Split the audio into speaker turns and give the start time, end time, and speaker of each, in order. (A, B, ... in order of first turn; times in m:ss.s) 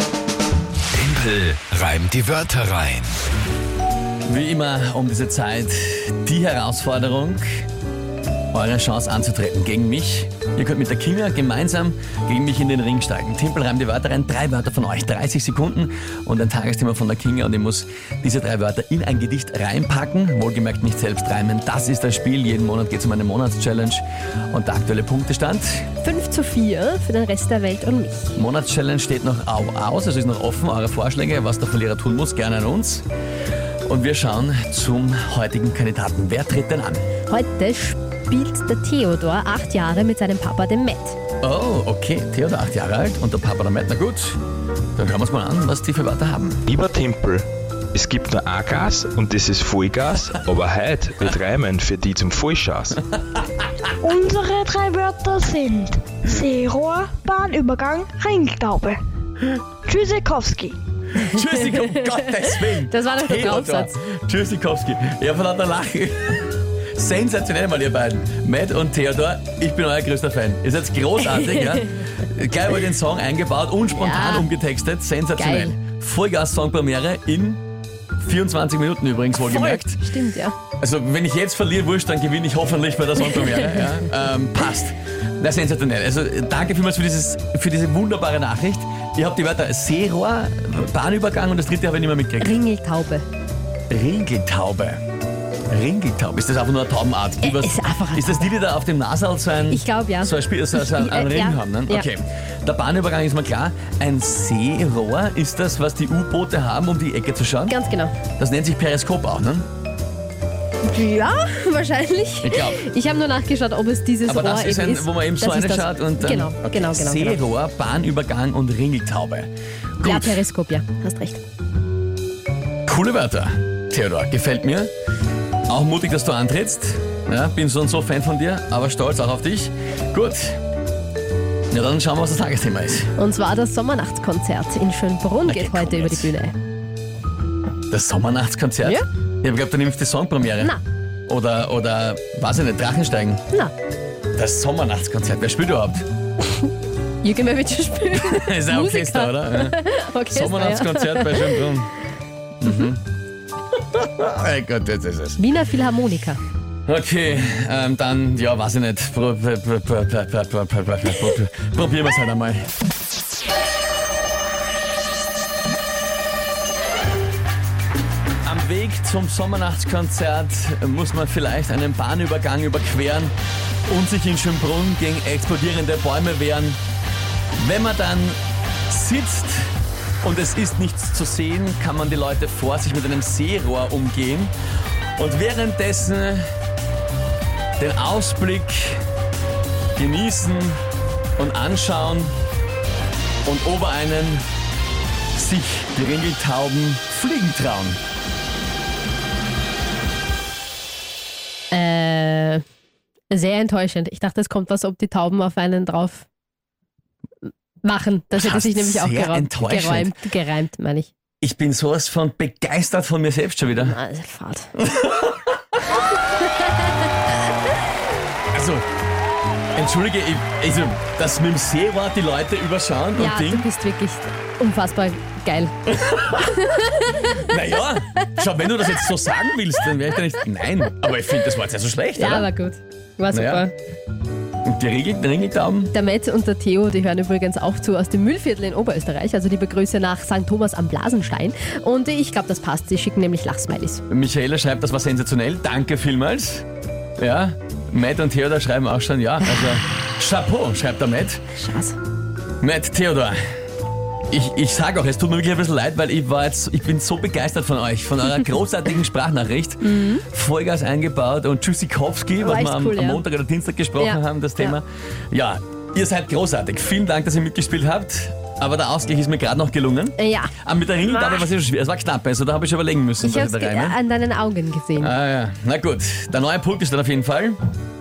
0:00.9-0:03.1 A
0:04.3-0:07.4 B
0:08.5-0:25.8 B
0:26.0-0:28.3 C
0:28.3-0:33.0 B
0:33.8-0:37.0 B
0:37.3-0:41.2 C
0:41.4-0:44.4 B
0:45.0-0:46.6 B
0:46.7-0:53.0 D
0:53.4-0:53.7 B
0:54.0-0:59.0 E
0:59.8-1:00.7 E
1:01.2-1:17.6 B
1:01.2-1:04.0 C
1:13.9-1:14.5 C
1:15.4-1:15.7 C
1:18.2-1:20.0 B
1:19.3-1:20.6 C
1:20.8-1:32.6 B
1:23.2-1:24.1 C
1:32.4-1:33.2 C
1:33.9-1:35.0 B
1:35.7-1:47.8 B
1:37.4-1:38.5 C
1:39.7-1:42.0 C
1:47.7-1:48.1 C
1:48.4-1:49.6 B
1:50.8-1:57.4 C
1:52.4-1:52.8 B
1:54.3-2:00.4 B
2:00.0-2:01.4 C
2:02.8-2:04.9 B
2:05.7-2:10.6 B
2:11.7-2:13.1 B
2:13.2-2:16.5 C
2:15.4-2:16.3 B
2:17.9-2:20.7 B
2:21.3-2:23.4 B
2:24.4-2:26.0 B
2:27.2-2:31.7 C
2:28.1-2:31.9 B
2:32.6-2:33.0 B
2:33.9-2:35.4 B
2:35.4-2:36.4 C
2:36.9-2:42.7 B
2:48.4-2:53.3 B
2:53.9-2:56.8 B
2:57.6-2:58.4 B
2:58.9-2:59.7 B
3:00.2-3:04.5 B
3:05.2-3:06.4 B
3:07.8-3:09.0 B
3:10.0-3:10.8 B
3:11.4-3:12.4 B
3:13.4-3:14.4 B
3:15.3-3:18.0 B
3:21.7-3:22.6 C
3:23.3-3:26.3 C
3:27.8-3:31.1 C
3:28.3-3:30.2 B
3:31.4-3:34.0 B
3:33.7-3:34.7 C
3:34.8-3:35.5 B
3:36.5-3:36.9 C
3:38.5-3:38.8 B
3:39.8-3:43.7 B
3:43.2-3:45.7 C
3:45.8-3:52.5 B
3:46.3-3:47.4 C
3:52.2-3:53.7 C
3:53.3-3:53.6 B
3:54.6-3:55.9 B
3:55.9-4:04.0 C
4:04.1-4:06.6 B
4:07.2-4:11.4 B
4:11.6-4:12.0 C
4:12.6-4:13.4 B
4:14.3-4:34.0 B
4:19.8-4:20.2 C
4:22.4-4:23.2 C
4:24.0-4:24.8 C
4:30.2-4:31.5 C
4:33.2-4:35.1 C
4:35.0-4:37.6 B